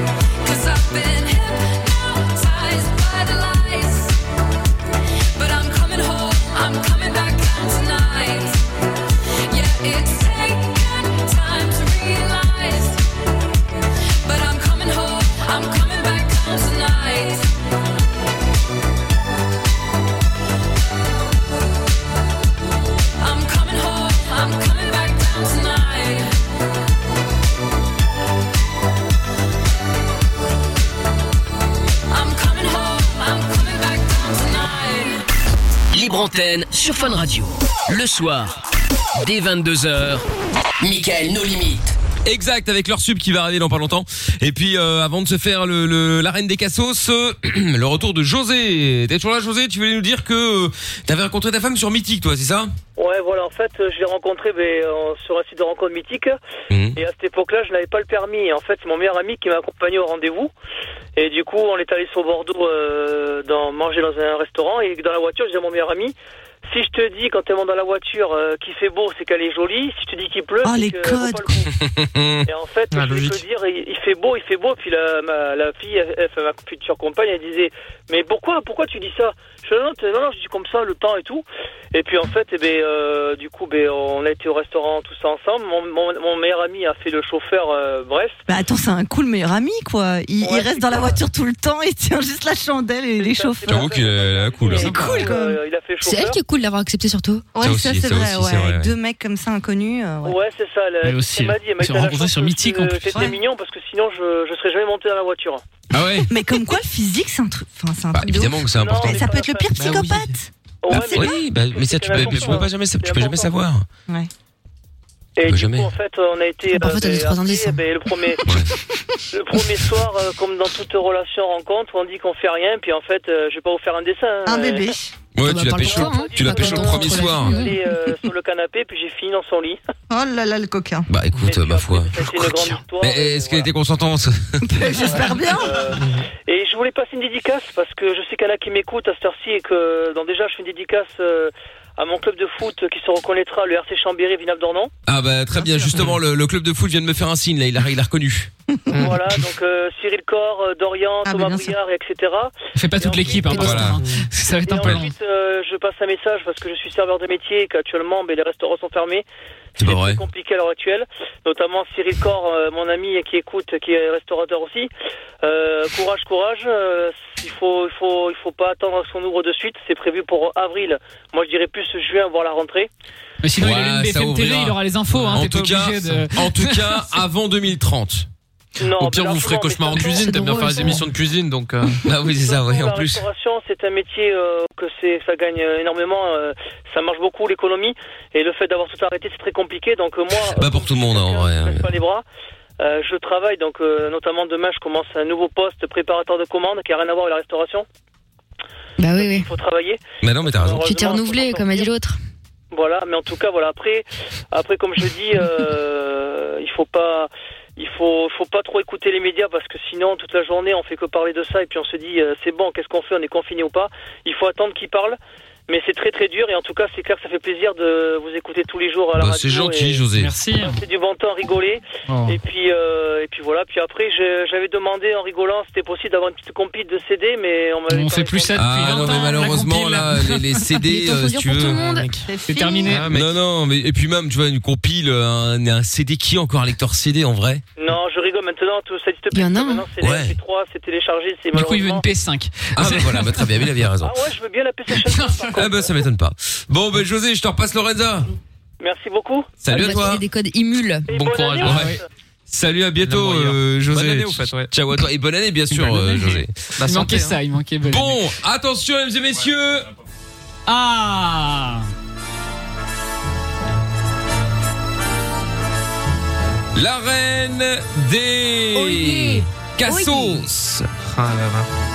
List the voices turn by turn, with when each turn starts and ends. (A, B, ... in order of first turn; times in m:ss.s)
0:00.4-0:04.2 A
0:05.3-0:08.6 A
0:09.4-0:13.0 A
0:14.2-0:17.5 A
0:23.2-0:26.4 A
0:32.1-0:35.2 A
0:35.9-0:38.6 B
0:39.2-0:40.2 B
0:40.8-0:42.0 B
0:42.2-0:52.7 C
0:53.0-0:56.4 D
0:56.7-0:57.0 C
0:57.0-1:00.5 D
1:01.2-1:06.1 D
1:06.6-1:11.7 D
1:10.6-1:11.5 E
1:11.8-1:12.5 C
1:12.5-1:28.4 D
1:12.9-1:13.4 F
1:28.5-1:33.9 E
1:30.4-1:31.2 D
1:33.2-1:36.4 D
1:33.7-1:34.9 C
1:34.8-1:35.3 G
1:34.8-1:35.6 E
1:36.0-1:37.5 H
1:37.6-1:40.4 E
1:37.6-1:38.9 C
1:40.2-1:45.6 D
1:41.0-1:43.0 G
1:41.9-1:43.3 F
1:45.9-1:46.3 C
1:46.3-1:50.5 E
1:48.1-1:49.3 C
1:48.7-1:49.7 D
1:49.8-1:50.4 F
1:50.8-1:53.5 D
1:50.9-1:53.9 C
1:52.1-1:52.6 F
1:55.4-1:58.4 D
1:55.4-1:55.9 C
1:56.7-1:57.8 H
1:58.4-1:58.7 C
1:59.3-2:04.9 D
2:04.5-2:05.1 E
2:05.4-2:07.6 C
2:05.4-2:07.8 H
2:05.8-2:09.8 D
2:10.1-2:11.1 E
2:11.1-2:14.8 C
2:11.4-2:13.7 D
2:14.6-2:15.8 E
2:15.1-2:24.9 D
2:25.1-2:28.5 C
2:25.6-2:25.8 E
2:28.9-2:29.2 F
2:29.0-2:33.9 D
2:31.2-2:31.8 E
2:32.8-2:35.1 G
2:33.5-2:34.0 C
2:33.9-2:34.2 F
2:34.6-2:39.2 D
2:39.8-2:44.9 D
2:39.8-2:40.2 C
2:45.4-2:52.9 D
2:53.4-2:57.0 G
2:53.6-2:54.8 C
2:55.1-2:55.4 F
2:55.3-2:58.3 C
2:58.8-3:00.7 D
2:58.9-3:02.0 F
3:00.1-3:01.0 H
3:02.0-3:03.3 C
3:02.4-3:12.2 D
3:10.4-3:12.0 C
3:12.8-3:17.9 D
3:19.0-3:19.5 H
3:19.1-3:21.9 D
3:20.2-3:20.9 C
3:20.8-3:22.2 H
3:22.7-3:35.2 D
3:35.7-3:40.1 D
3:39.2-3:40.3 C
3:40.2-3:40.8 G
3:40.6-3:49.2 D
3:42.1-3:42.4 G
3:47.9-3:50.6 G
3:48.5-3:51.8 C
3:50.7-3:52.1 H
3:51.7-3:52.2 F
3:52.2-3:52.9 E
3:52.5-3:53.1 G
3:52.8-3:53.4 F
3:53.1-3:57.6 C
3:57.8-4:02.1 D
3:59.3-3:59.9 H
4:00.0-4:00.4 C
4:01.5-4:03.5 G
4:02.8-4:04.2 C
4:04.0-4:06.0 D
4:05.1-4:05.5 G
4:05.6-4:08.3 C
4:08.8-4:09.6 D
4:09.6-4:10.2 C
4:09.7-4:11.1 H
4:11.1-4:12.0 D
4:11.1-4:12.0 F
4:11.6-4:12.0 C
4:11.7-4:12.0 G
4:12.5-4:16.5 C
4:13.0-4:14.7 F
4:15.8-4:18.2 G
4:16.8-4:17.4 F
4:17.8-4:19.9 C
4:20.7-4:21.9 G
4:26.8-4:30.9 C
4:28.8-4:29.5 H
4:29.9-4:30.4 E
4:31.1-4:31.7 F